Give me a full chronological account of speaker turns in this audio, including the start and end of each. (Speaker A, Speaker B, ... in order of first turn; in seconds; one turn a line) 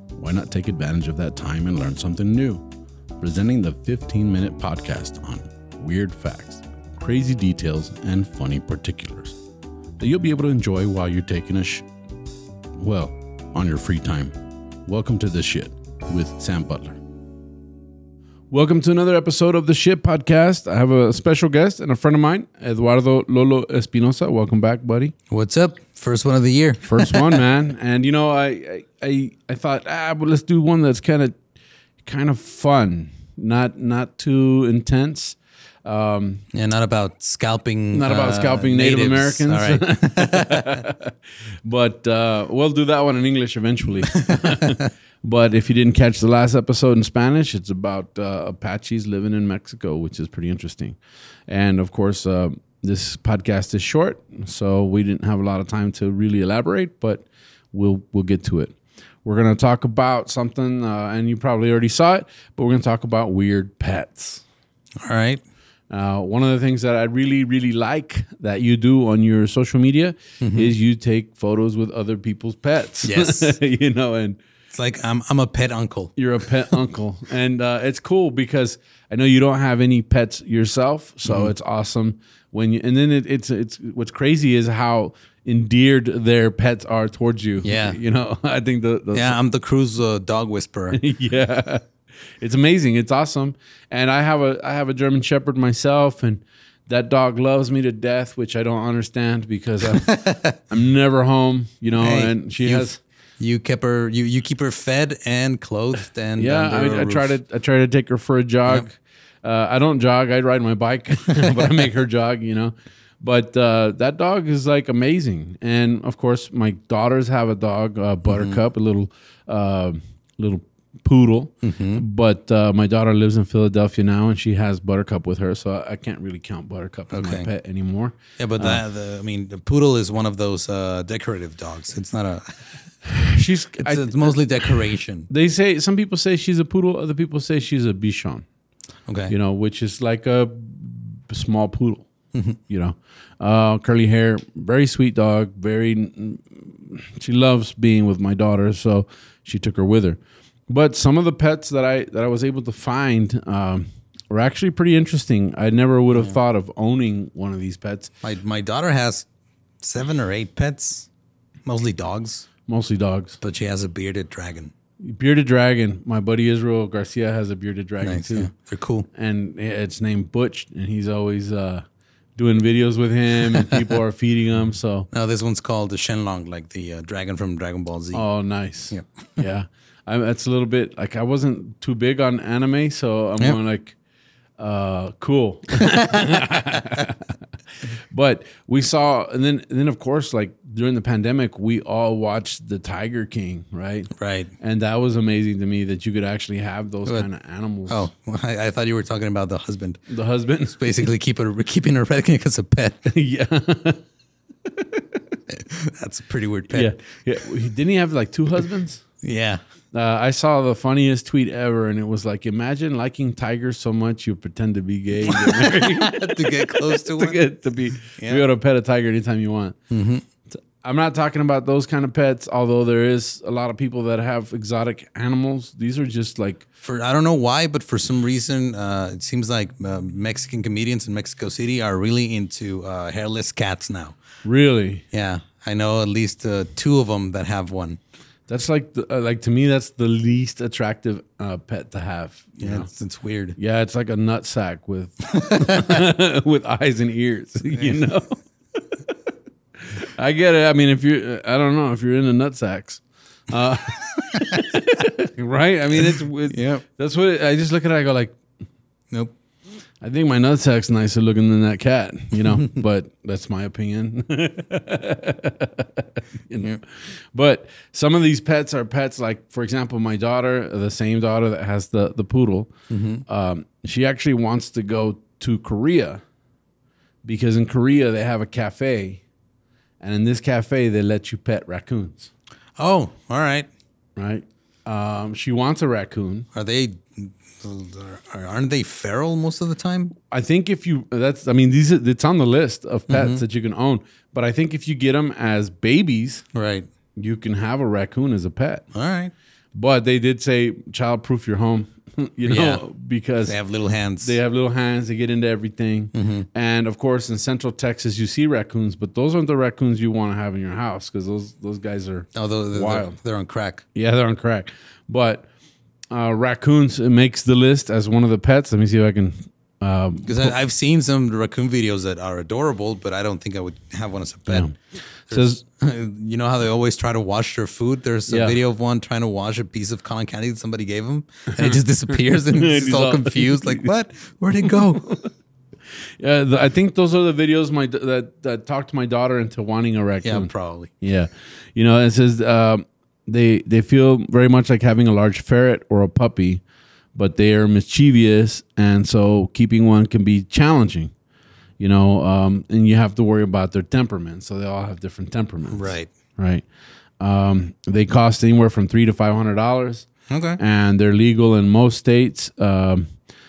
Speaker A: 0.2-2.6
Speaker A: 3.2-9.4
Speaker A: 10.0-11.9
Speaker A: 12.8-14.3
Speaker A: 14.9-17.0
Speaker A: 18.5-25.1
Speaker B: 25.3-27.4
Speaker A: 26.9-31.4
Speaker A: 32.0-36.5
Speaker B: 36.5-40.8
Speaker A: 37.9-41.1
Speaker A: 41.7-51.0
Speaker B: 44.3-44.7
Speaker A: 51.5-64.4
Speaker B: 65.0-65.4
Speaker A: 65.9-74.4
Speaker B: 70.4-70.7
Speaker B: 73.0-73.5
Speaker B: 74.7-76.2
Speaker A: 76.2-89.4
Speaker B: 81.3-81.5
Speaker B: 87.6-88.0
Speaker B: 89.1-91.0
Speaker A: 90.9-91.9
Speaker A: 92.4-103.0
Speaker B: 99.9-100.6
Speaker B: 102.0-107.4
Speaker A: 106.4-128.8
Speaker B: 118.3-118.6
Speaker B: 121.6-122.0
Speaker B: 127.1-127.5
Speaker B: 128.4-132.7
Speaker A: 133.0-138.4
Speaker B: 133.7-135.3
Speaker B: 139.1-139.3
Speaker A: 139.3-142.1
Speaker B: 142.3-142.6
Speaker A: 142.7-158.1
Speaker B: 156.1-156.4
Speaker B: 158.2-159.3
Speaker B: 159.8-161.1
Speaker B: 161.7-162.5
Speaker A: 162.7-163.4
Speaker B: 163.4-164.7
Speaker A: 165.0-168.5
Speaker B: 168.0-169.1
Speaker A: 169.1-171.8
Speaker A: 172.4-175.1
Speaker B: 175.1-178.3
Speaker A: 178.1-184.0
Speaker A: 184.6-187.3
Speaker A: 188.1-198.1
Speaker B: 194.2-194.5
Speaker B: 197.9-200.1
Speaker A: 200.1-201.1
Speaker B: 200.7-203.1
Speaker A: 203.1-204.0
Speaker B: 205.5-206.9
Speaker A: 206.7-209.0
Speaker B: 209.2-209.6
Speaker A: 209.9-219.8
Speaker B: 215.3-217.4
Speaker B: 218.1-218.4
Speaker B: 219.9-220.2
Speaker A: 220.8-226.7
Speaker B: 226.8-234.2
Speaker A: 234.4-235.1
Speaker B: 235.1-238.0
Speaker A: 238.5-242.9
Speaker B: 242.6-243.6
Speaker A: 243.6-248.4
Speaker B: 245.5-245.9
Speaker B: 247.7-248.0
Speaker A: 250.0-258.4
Speaker B: 256.0-256.9
Speaker A: 260.0-272.7
Speaker B: 262.4-262.7
Speaker B: 272.9-273.2
Speaker A: 273.3-276.2
Speaker A: 277.2-279.2
Speaker A: 280.0-282.3
Speaker B: 282.8-283.7
Speaker A: 284.2-286.5
Speaker B: 286.5-290.1
Speaker A: 290.3-296.4
Speaker B: 293.1-293.4
Speaker B: 296.5-296.9
Speaker A: 297.2-298.9
Speaker B: 298.9-299.3
Speaker A: 299.8-303.6
Speaker B: 302.4-302.8
Speaker B: 303.4-304.4
Speaker A: 304.2-313.2
Speaker B: 306.1-306.5
Speaker B: 312.3-313.8
Speaker A: 313.9-315.5
Speaker A: 316.1-320.6
Speaker B: 320.2-324.7
Speaker A: 324.5-324.7
Speaker B: 325.3-335.2
Speaker A: 325.3-325.6
Speaker A: 328.3-328.6
Speaker A: 331.5-333.9
Speaker A: 334.6-335.3
Speaker A: 336.2-346.6
Speaker B: 340.2-340.9
Speaker A: 347.2-351.1
Speaker A: 351.8-356.6
Speaker B: 355.7-356.1
Speaker A: 357.2-363.1
Speaker B: 360.3-360.6